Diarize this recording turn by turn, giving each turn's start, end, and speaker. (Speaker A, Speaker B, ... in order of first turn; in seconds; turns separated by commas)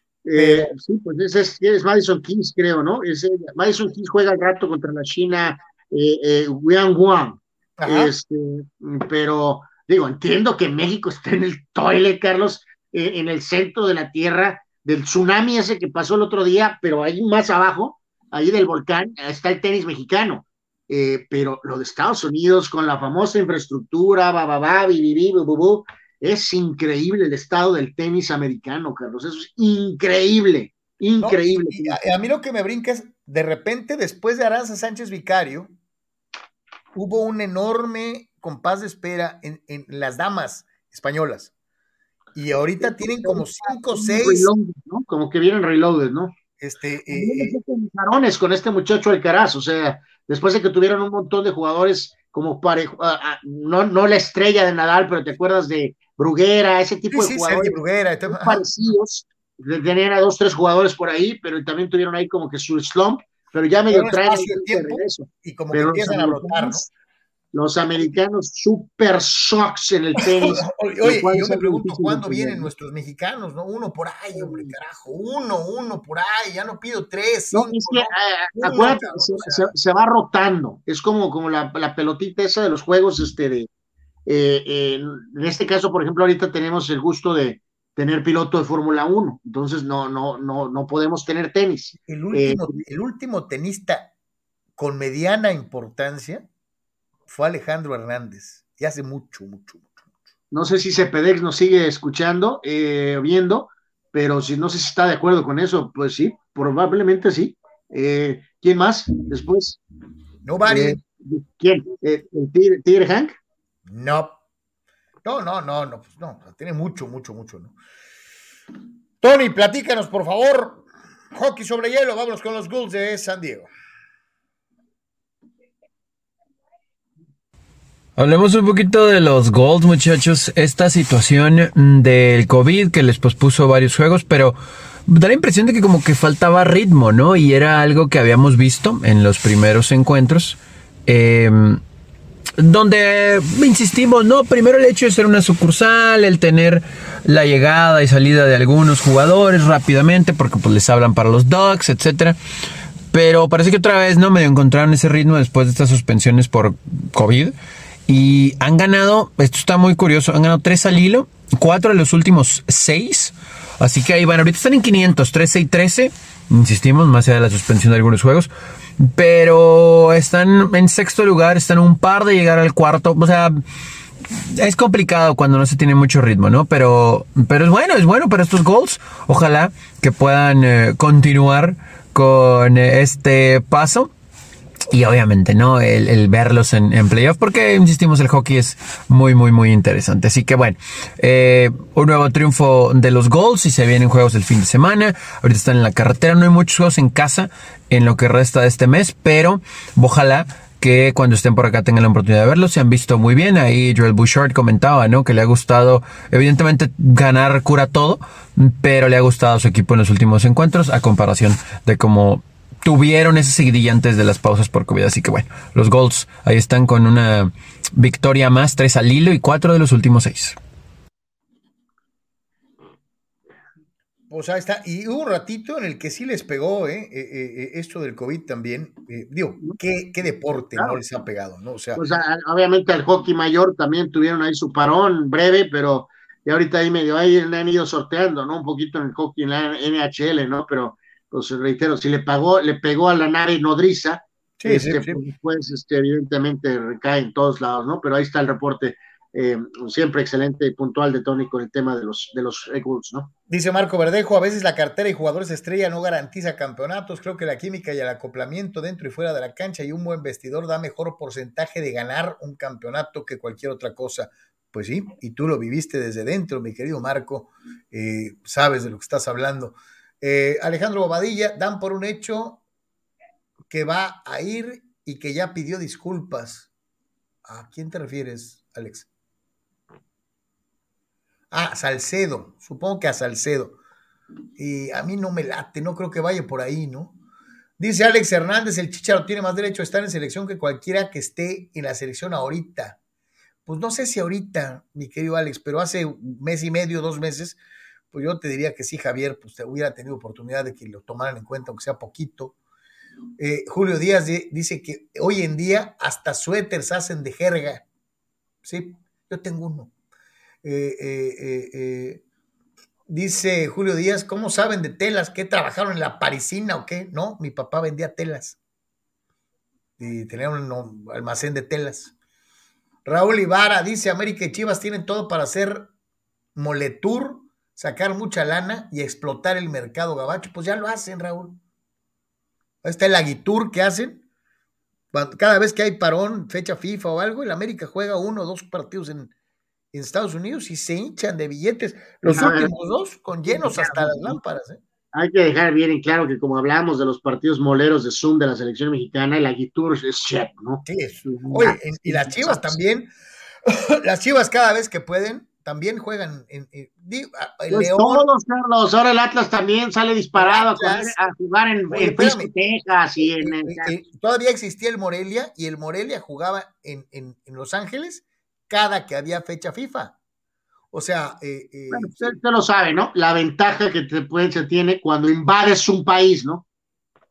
Speaker A: 0.2-32.0, Speaker B: 0.3-0.7, Speaker B: 7.8-8.1, Speaker B: 31.2-35.7, Speaker B: 37.0-41.5, Speaker B: 42.4-44.5, Speaker A: 42.8-46.3, Speaker B: 46.6-47.6, Speaker A: 47.1-66.9, Speaker B: 57.1-58.6, Speaker B: 63.9-66.9, Speaker A: 67.5-72.7, Speaker B: 70.2-79.7, Speaker A: 74.3-74.7, Speaker A: 77.5-83.7, Speaker A: 84.3-92.8, Speaker B: 92.1-94.1, Speaker B: 94.8-96.5, Speaker B: 97.3-99.9, Speaker A: 100.5-109.8, Speaker B: 110.5-111.0, Speaker A: 110.7-113.4, Speaker B: 113.9-114.4, Speaker B: 115.2-117.8, Speaker B: 119.2-123.7, Speaker C: 128.2-141.8, Speaker C: 142.6-152.4, Speaker C: 153.1-157.6, Speaker C: 158.1-173.6, Speaker C: 174.5-184.1, Speaker C: 184.9-220.6, Speaker B: 224.3-232.0, Speaker A: 232.0-253.3, Speaker B: 244.6-245.2, Speaker B: 253.5-272.6, Speaker B: 273.7-276.7, Speaker B: 277.5-279.1, Speaker B: 281.5-283.8, Speaker B: 284.6-287.2, Speaker B: 287.8-293.0, Speaker B: 293.7-297.6, Speaker B: 298.1-302.6, Speaker B: 303.4-307.9, Speaker B: 308.6-309.9, Speaker B: 310.6-312.2, Speaker B: 313.1-318.6, Speaker B: 320.0-322.1, Speaker B: 323.1-325.9, Speaker B: 326.6-331.6, Speaker B: 332.8-334.2, Speaker B: 335.1-339.3, Speaker B: 339.9-344.8, Speaker A: 342.2-342.7, Speaker A: 343.5-344.4, Speaker A: 345.1-352.8, Speaker B: 350.8-353.1, Speaker B: 353.6-358.3, Speaker A: 357.7-363.9, Speaker B: 360.4-361.2, Speaker B: 361.9-362.5, Speaker B: 363.2-370.2, Speaker B: 370.9-372.4, Speaker A: 371.9-376.6